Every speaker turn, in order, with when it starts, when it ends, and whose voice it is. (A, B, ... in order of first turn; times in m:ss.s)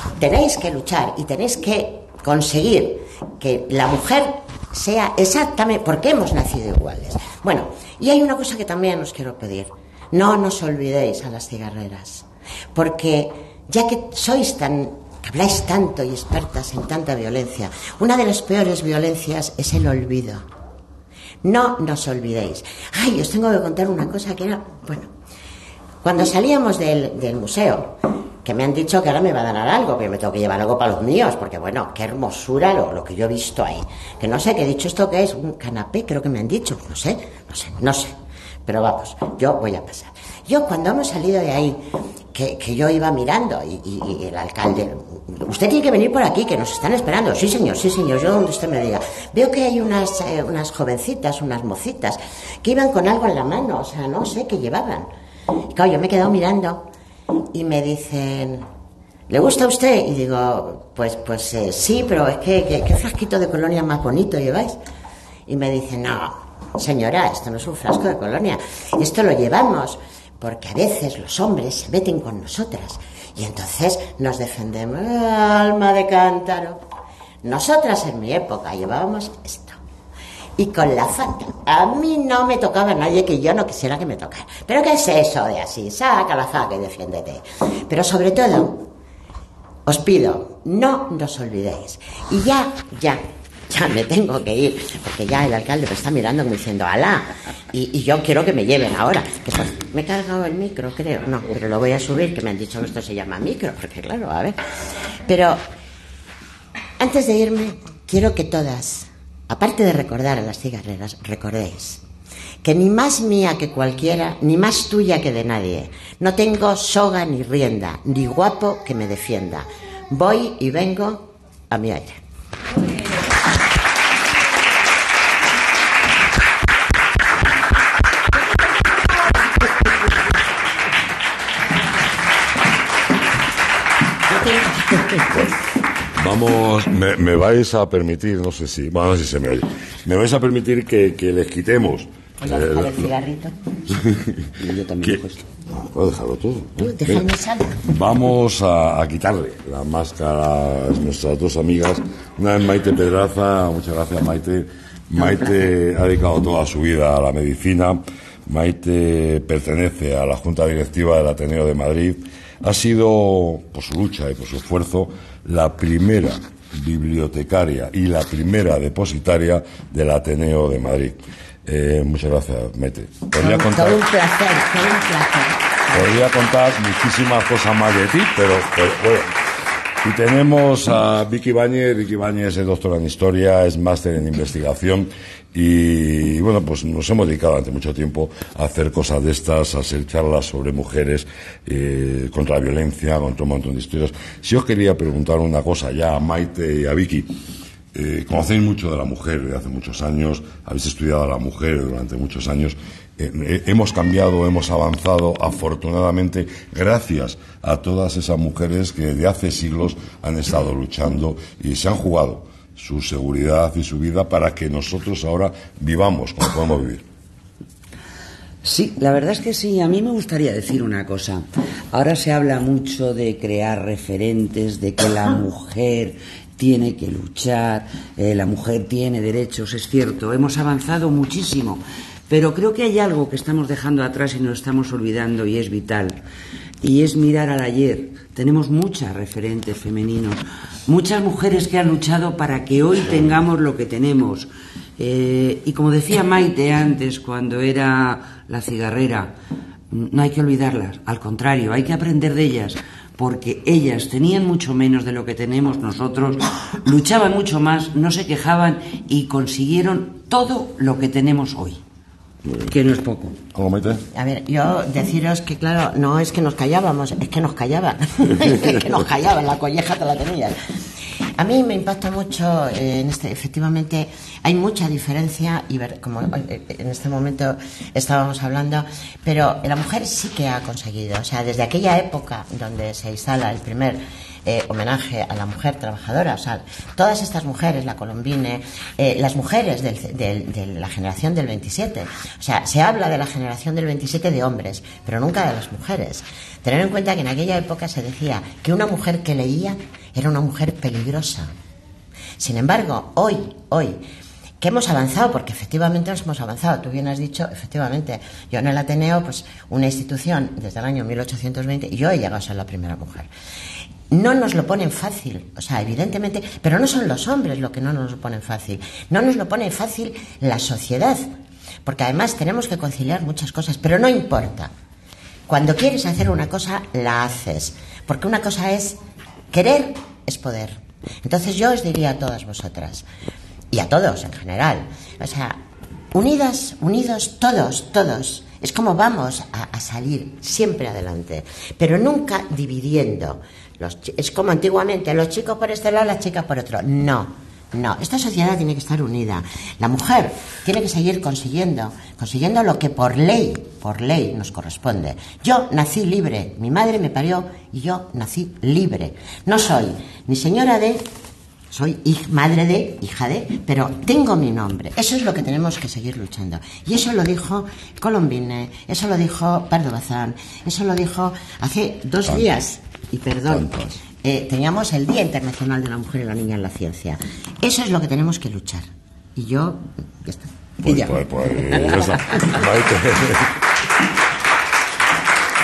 0:00.2-0:20.4 A
0:21.4-0:25.1 A
0:26.0-0:38.1 A
0:38.6-0:41.8 A
0:42.3-0:55.1 A
0:55.7-0:56.8 A
0:57.5-0:58.6 A
0:59.3-1:04.8 A
1:05.5-1:16.8 A
1:17.4-1:19.8 A
1:20.6-1:28.8 A
1:29.8-1:44.6 A
1:45.3-1:45.6 A
1:47.0-1:52.0 A
1:52.6-2:02.2 A
2:16.2-2:23.1 B
2:22.4-2:23.5 A
2:23.9-2:24.5 B
2:24.6-2:25.4 C
2:25.0-2:27.2 B
2:26.8-2:27.8 A
2:27.8-2:54.0 B
2:53.4-2:56.0 A
2:55.9-2:59.3 B
3:00.0-3:17.3 B
3:17.9-3:37.0 B
3:38.6-3:56.2 C
3:56.8-4:09.3 C
4:09.9-4:21.8 C
4:22.7-4:23.4 C
4:23.5-4:24.0 B
4:24.1-4:30.6 A
4:31.4-5:01.5 A
5:02.4-5:04.0 A
5:04.6-5:13.3 A
5:14.1-5:21.3 A
5:21.8-5:24.7 A
5:25.5-5:29.0 A
5:29.5-5:33.0 A
5:33.7-5:35.6 A
5:36.1-6:01.0 A
6:01.7-6:22.2 A
6:13.5-6:14.0 B
6:20.8-6:23.5 B